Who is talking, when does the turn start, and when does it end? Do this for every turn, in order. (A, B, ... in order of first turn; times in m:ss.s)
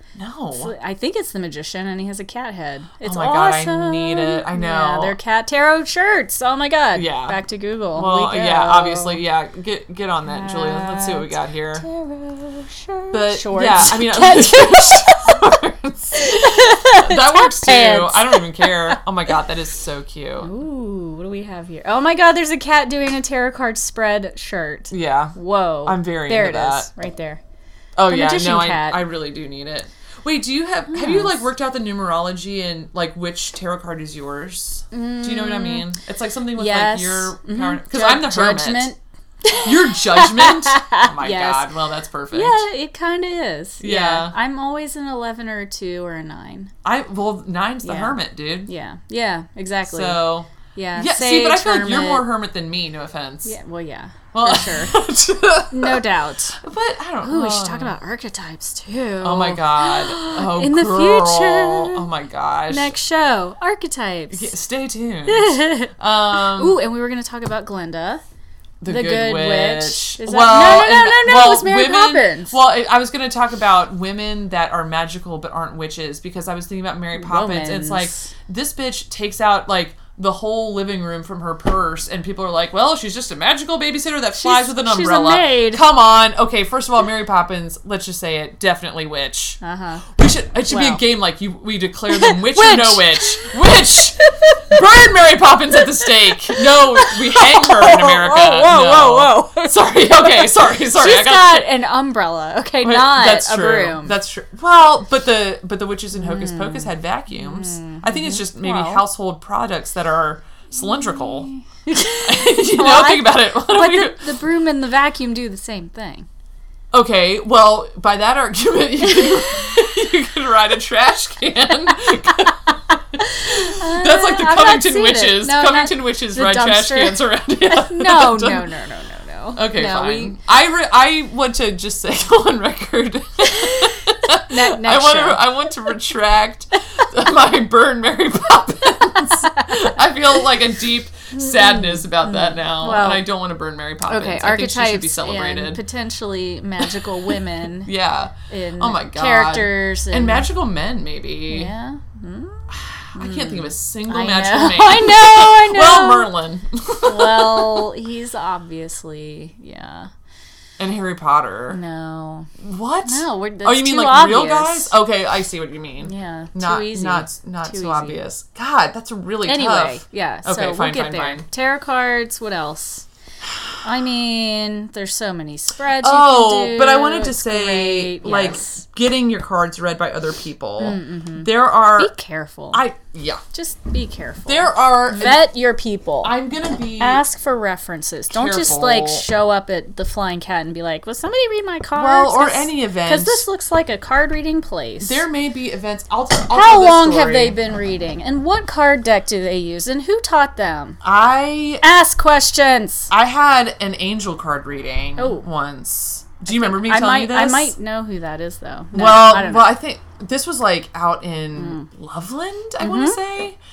0:00.1-0:00.7 A
0:00.5-0:09.2 B
0:03.0-0:05.2 A
0:06.9-0:07.4 A
0:07.9-0:11.8 A
0:10.2-0:15.4 B
0:13.1-0:20.5 A
0:16.1-0:19.0 B
0:20.4-0:27.4 B
0:24.9-0:26.9 A
0:28.0-0:38.9 A
0:28.0-0:29.0 B
0:30.9-0:31.3 B
0:34.9-0:35.9 B
0:36.5-0:41.7 B
0:39.6-0:42.6 A
0:42.3-0:46.7 B
0:43.8-0:44.3 A
0:46.8-0:48.7 A
0:47.8-0:52.3 B
0:49.9-0:53.6 A
0:53.4-0:55.0 B
0:54.3-0:58.0 A
0:55.7-0:56.6 B
0:57.2-1:02.1 B
0:59.2-1:02.9 A
1:02.7-1:04.5 B
1:04.3-1:06.8 A
1:05.3-1:08.2 B
1:08.8-1:29.6 A
1:08.8-1:12.6 B
1:17.2-1:18.3 B
1:24.4-1:25.8 B
1:29.6-1:30.1 B
1:30.1-1:41.7 A
1:30.7-1:31.0 B
1:32.1-1:34.8 B
1:35.7-1:44.1 B
1:42.8-1:51.5 A
1:46.1-1:49.0 B
1:50.8-1:56.3 B
1:52.2-1:54.4 A
1:56.9-2:08.7 A
1:59.2-1:59.5 B
2:03.2-2:10.4 B
2:09.5-2:25.8 A
2:13.4-2:15.4 B
2:19.4-2:19.9 B
2:21.3-2:23.2 B
2:24.1-2:27.9 B
2:26.8-2:31.7 A
2:28.5-2:30.5 B
2:31.5-2:36.3 B
2:32.7-2:37.9 A
2:37.0-2:40.1 B
2:40.8-2:41.8 A
2:41.7-2:42.5 B
2:42.6-2:51.4 A
2:43.0-2:44.9 B
2:46.0-2:48.2 B
2:49.4-2:53.0 B
2:53.5-2:53.8 A
2:53.8-2:58.8 B
2:56.0-3:02.1 A
3:00.8-3:02.8 B
3:02.7-3:03.4 A
3:03.5-3:06.3 B
3:04.5-3:05.5 A
3:06.2-3:07.2 A
3:07.0-3:15.2 B
3:08.3-3:09.2 A
3:11.9-3:13.4 A
3:15.0-3:17.6 A
3:16.5-3:21.0 B
3:21.0-3:21.8 A
3:21.8-3:23.1 B
3:23.1-3:27.7 A
3:25.2-3:25.4 B
3:26.5-3:29.7 B
3:28.9-3:33.6 A
3:31.5-3:31.9 B
3:32.8-3:33.2 B